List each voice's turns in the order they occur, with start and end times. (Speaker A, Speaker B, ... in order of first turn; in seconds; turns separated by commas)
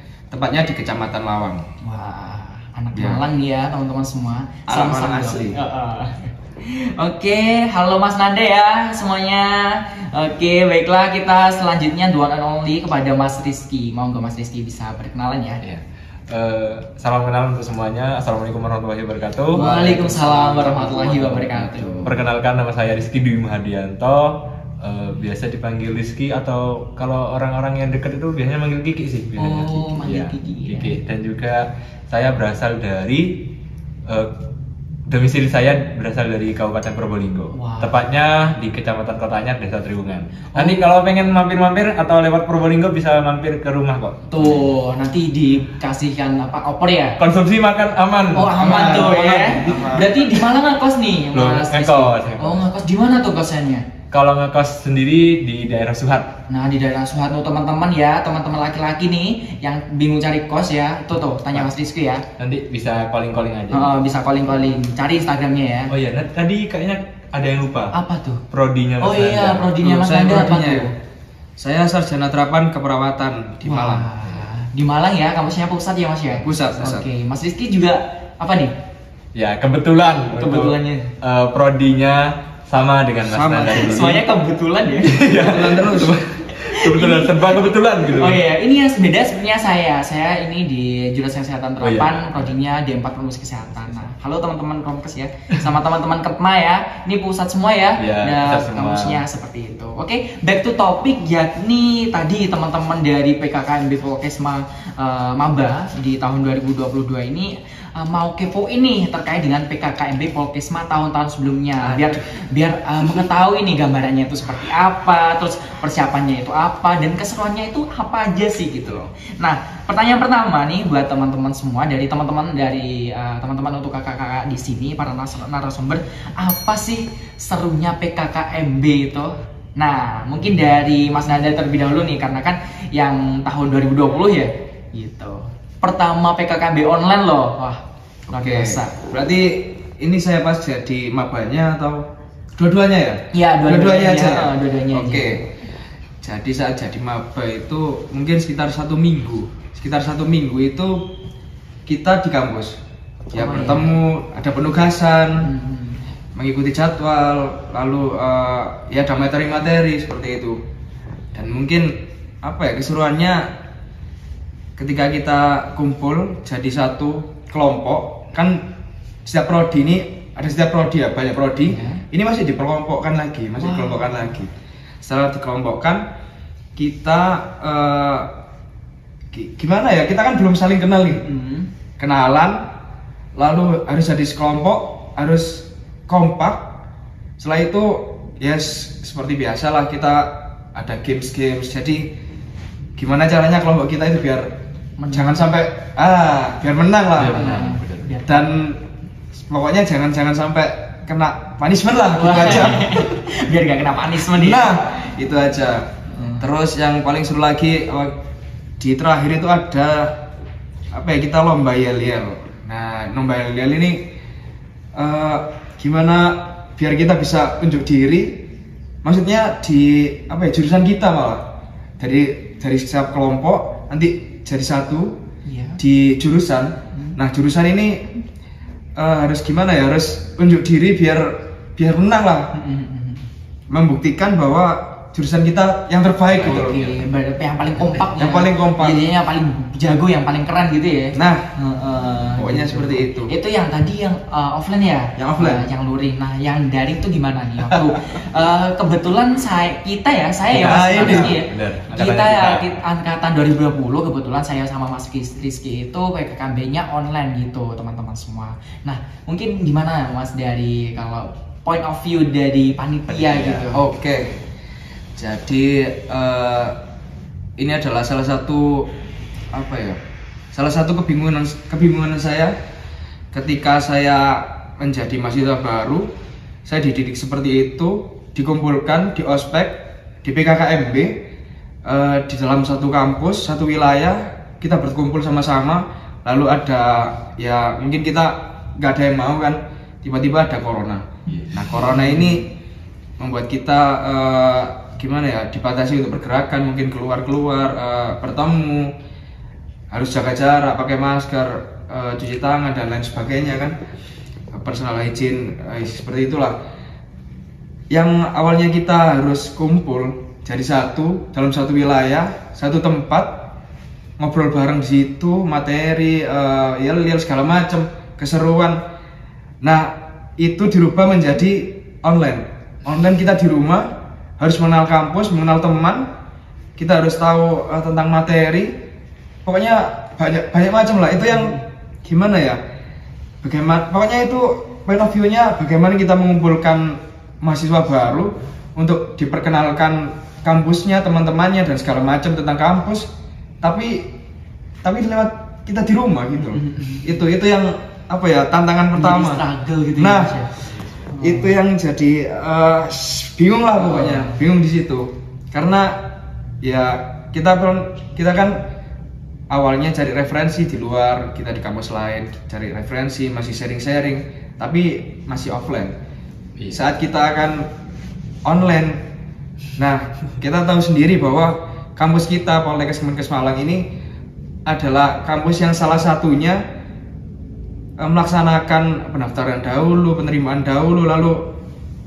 Speaker A: 0.3-1.6, Speaker B: 1.8-15.6, Speaker A: 2.9-3.2, Speaker A: 4.7-5.6, Speaker C: 15.6-19.6, Speaker B: 19.5-22.1, Speaker A: 19.6-22.2, Speaker C: 22.1-33.5, Speaker B: 29.4-31.0, Speaker C: 34.1-34.3, Speaker C: 35.1-44.7, Speaker B: 37.5-38.1, Speaker B: 40.5-40.8, Speaker B: 44.3-47.2, Speaker C: 47.2-49.0, Speaker B: 48.3-53.8, Speaker A: 48.6-50.3, Speaker C: 51.3-52.6, Speaker C: 54.1-56.3, Speaker B: 56.5-62.2, Speaker C: 62.4-63.9, Speaker B: 63.7-65.9, Speaker C: 65.9-67.9, Speaker B: 67.9-68.4, Speaker C: 68.5-69.7, Speaker B: 69.0-70.9, Speaker A: 69.8-70.9, Speaker A: 71.6-74.1, Speaker B: 73.6-78.7, Speaker A: 76.4-77.1, Speaker C: 79.3-84.2, Speaker B: 80.3-81.1, Speaker A: 83.2-84.2, Speaker B: 83.6-85.5, Speaker C: 85.0-88.4, Speaker A: 85.3-86.1, Speaker B: 86.5-139.0, Speaker C: 91.8-92.5, Speaker C: 98.0-99.2, Speaker A: 111.8-112.2, Speaker A: 138.3-142.0, Speaker A: 142.6-145.4, Speaker B: 143.3-145.4, Speaker A: 146.2-151.0, Speaker A: 151.8-152.8, Speaker B: 153.3-153.9, Speaker A: 153.3-155.5, Speaker B: 155.4-156.0, Speaker A: 156.3-160.6, Speaker A: 161.3-163.5, Speaker A: 164.8-168.7, Speaker A: 169.2-174.5, Speaker B: 171.7-172.0, Speaker B: 173.6-174.3, Speaker A: 175.0-176.0, Speaker A: 176.8-178.3, Speaker A: 179.3-181.2, Speaker B: 181.1-181.7, Speaker A: 182.0-182.7, Speaker A: 183.3-186.7, Speaker A: 187.4-192.1, Speaker A: 192.9-194.5, Speaker B: 195.0-195.4, Speaker A: 195.1-197.5, Speaker C: 197.2-198.2, Speaker B: 197.2-198.3, Speaker A: 198.2-198.8, Speaker A: 199.3-203.1, Speaker B: 202.1-204.8, Speaker A: 204.3-208.2, Speaker B: 206.1-206.5, Speaker A: 208.8-210.2, Speaker A: 210.9-214.0, Speaker A: 214.9-218.4, Speaker A: 219.0-221.4, Speaker A: 222.0-225.2, Speaker B: 225.5-225.8, Speaker A: 225.8-228.1, Speaker A: 228.9-232.5, Speaker B: 232.5-233.3, Speaker A: 233.7-236.8, Speaker C: 236.3-237.0, Speaker B: 236.4-263.8, Speaker A: 237.9-239.0, Speaker A: 241.1-241.4, Speaker A: 242.4-243.3, Speaker A: 245.2-245.6, Speaker C: 250.5-252.7, Speaker A: 250.6-251.3, Speaker C: 263.1-263.6, Speaker A: 263.7-264.4, Speaker A: 265.2-266.8, Speaker A: 267.6-268.9, Speaker A: 269.5-270.0, Speaker A: 270.5-272.5, Speaker A: 273.3-276.1, Speaker A: 276.6-281.2, Speaker A: 281.8-292.5, Speaker B: 291.4-292.4, Speaker A: 293.2-298.9, Speaker A: 299.9-303.8, Speaker A: 304.5-306.6, Speaker A: 307.9-313.5, Speaker A: 314.2-318.8, Speaker A: 319.6-323.9, Speaker A: 324.4-326.1, Speaker A: 326.8-328.8, Speaker A: 329.4-332.6, Speaker B: 331.3-331.6, Speaker A: 333.4-343.1, Speaker A: 343.6-344.1, Speaker A: 344.8-349.4, Speaker B: 346.5-347.1, Speaker B: 348.9-351.6, Speaker A: 350.0-350.4, Speaker A: 351.2-358.6, Speaker B: 353.8-354.4, Speaker A: 359.5-365.9, Speaker C: 366.6-366.8, Speaker A: 366.7-367.7, Speaker A: 368.4-369.0, Speaker A: 369.8-373.9, Speaker A: 374.6-376.6, Speaker A: 378.0-381.5